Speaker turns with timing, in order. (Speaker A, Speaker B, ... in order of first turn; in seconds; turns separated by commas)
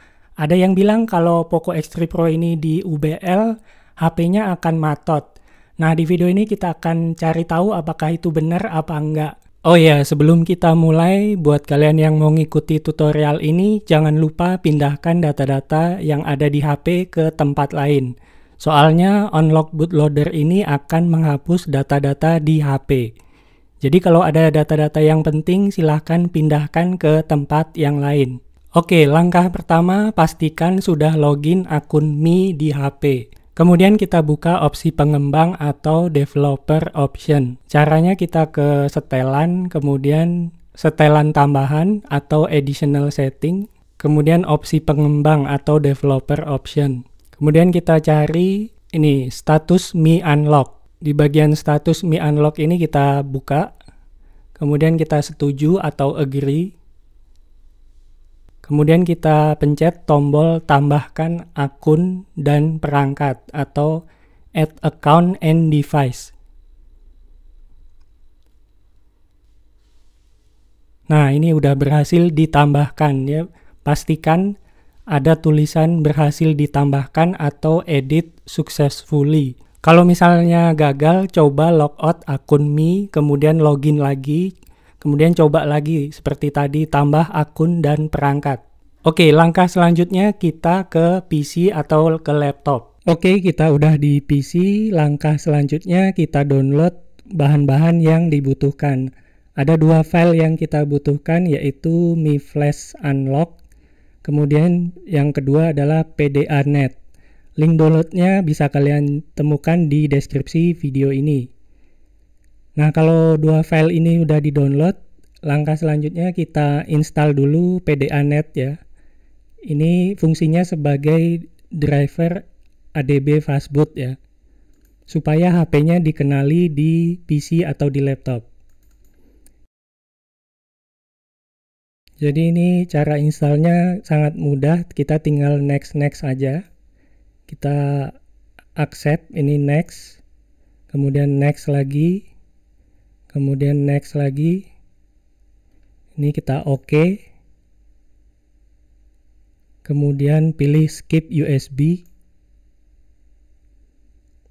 Speaker A: 0.4-23.1, Speaker A: 23.8-53.7, Speaker A: 54.6-56.7, Speaker A: 58.6-64.0, Speaker A: 64.6-66.3, Speaker A: 71.1-74.5, Speaker A: 75.1-99.0, Speaker A: 99.6-103.5, Speaker A: 104.2-107.0, Speaker A: 107.6-111.5, Speaker A: 112.8-118.8, Speaker A: 119.7-122.4, Speaker A: 123.0-124.2, Speaker A: 125.1-128.4, Speaker A: 132.2-136.6, Speaker A: 137.5-138.1, Speaker A: 138.8-140.2, Speaker A: 140.9-142.2, Speaker A: 143.3-144.7, Speaker A: 146.2-147.2, Speaker A: 149.8-152.0